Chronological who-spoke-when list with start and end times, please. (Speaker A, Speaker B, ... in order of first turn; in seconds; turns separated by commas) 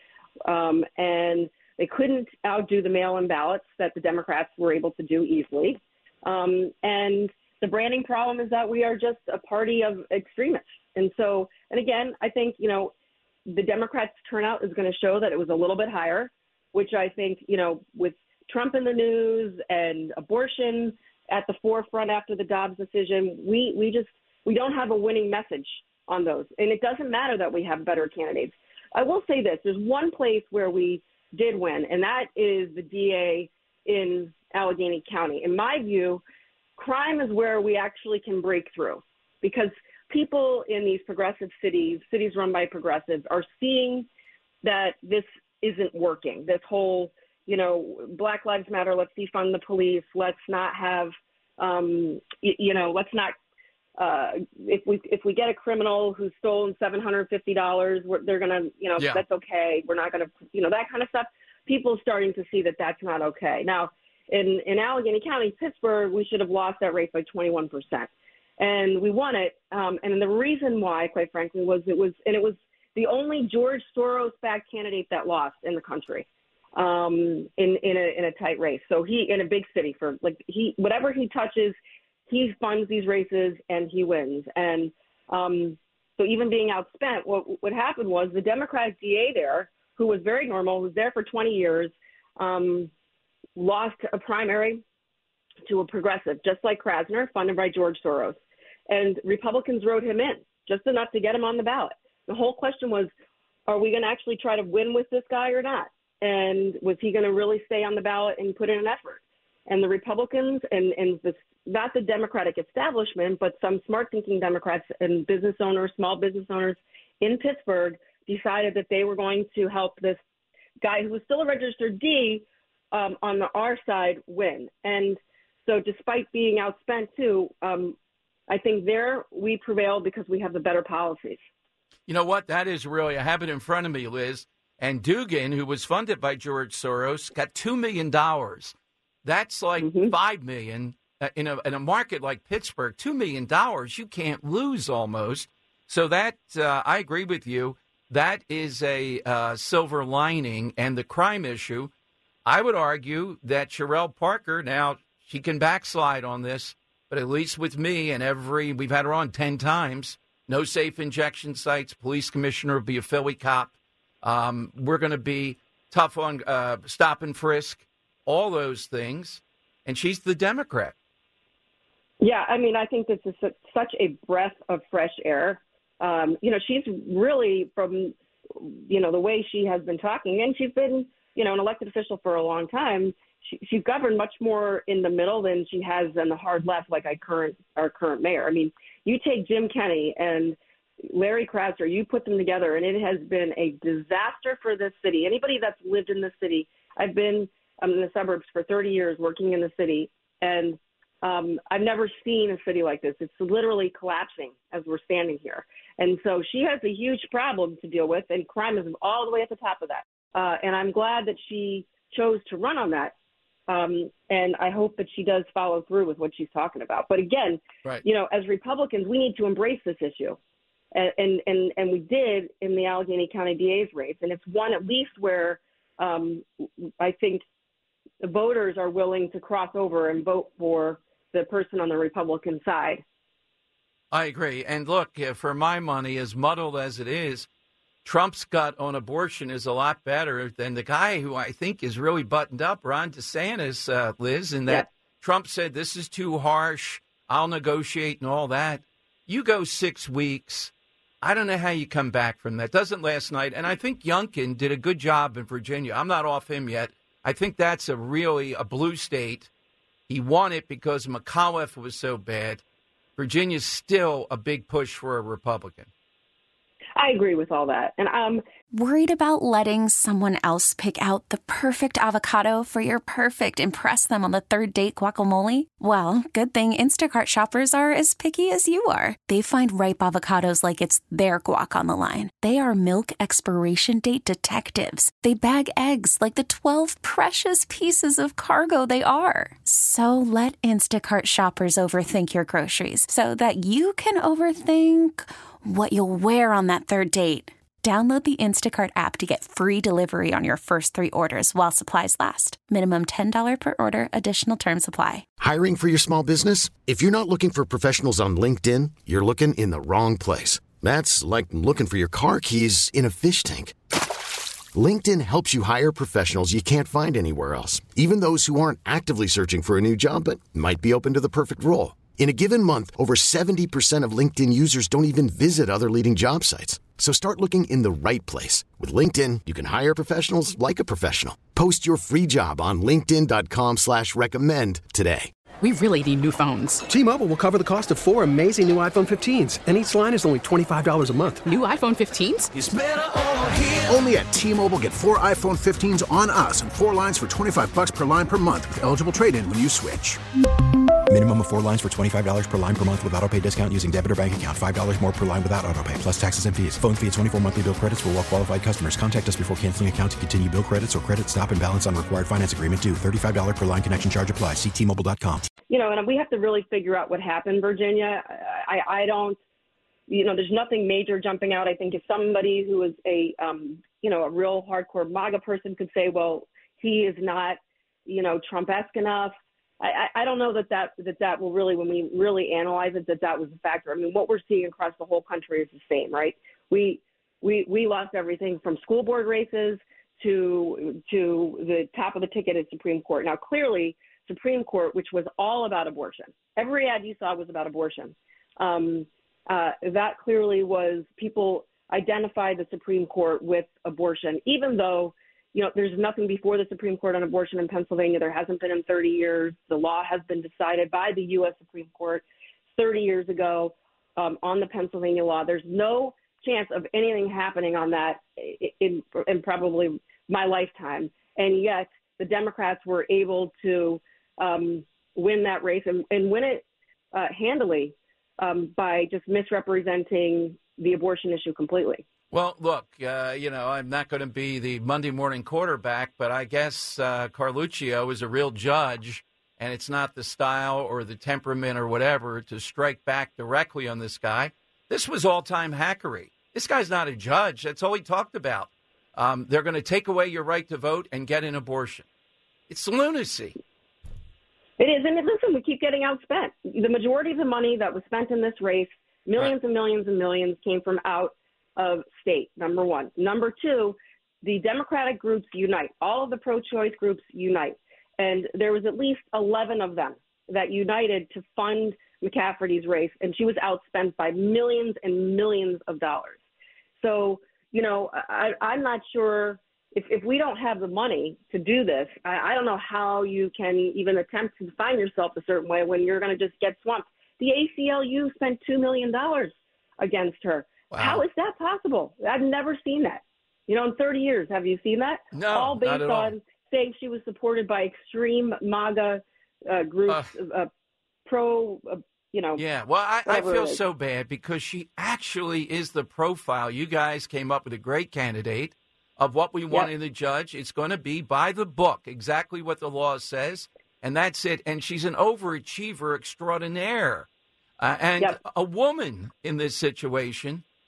Speaker A: 0.4-12.9, Speaker A: 13.5-36.2, Speaker A: 36.8-44.1, Speaker A: 44.6-53.3, Speaker A: 54.0-81.8, Speaker A: 82.3-92.9, Speaker A: 93.6-94.8, Speaker A: 95.7-103.1, Speaker A: 103.7-120.2, Speaker A: 120.8-128.0, Speaker A: 128.5-131.4, Speaker B: 132.1-138.7, Speaker B: 139.2-151.9, Speaker A: 139.8-140.1, Speaker B: 152.5-170.9, Speaker A: 172.2-213.1, Speaker A: 213.7-220.4, Speaker A: 220.9-226.5, Speaker A: 227.0-227.4, Speaker A: 228.2-233.0, Speaker B: 234.1-237.5, Speaker B: 238.0-259.5, Speaker B: 260.1-262.6, Speaker B: 263.2-265.9, Speaker A: 267.0-268.4, Speaker C: 268.7-305.2, Speaker D: 305.4-313.7, Speaker D: 314.7-335.3, Speaker E: 335.6-336.9, Speaker F: 337.8-340.1, Speaker E: 341.4-342.5, Speaker G: 342.5-350.2, Speaker H: 351.1-365.5, Speaker A: 365.7-369.4, Speaker A: 370.1-432.0, Speaker B: 432.3-452.1, Speaker B: 452.7-453.6, Speaker A: 454.8-476.4, Speaker A: 477.0-500.7, Speaker B: 490.9-491.2, Speaker B: 495.3-496.4, Speaker A: 501.2-502.6, Speaker B: 502.6-517.3, Speaker A: 503.2-503.8, Speaker B: 517.8-520.6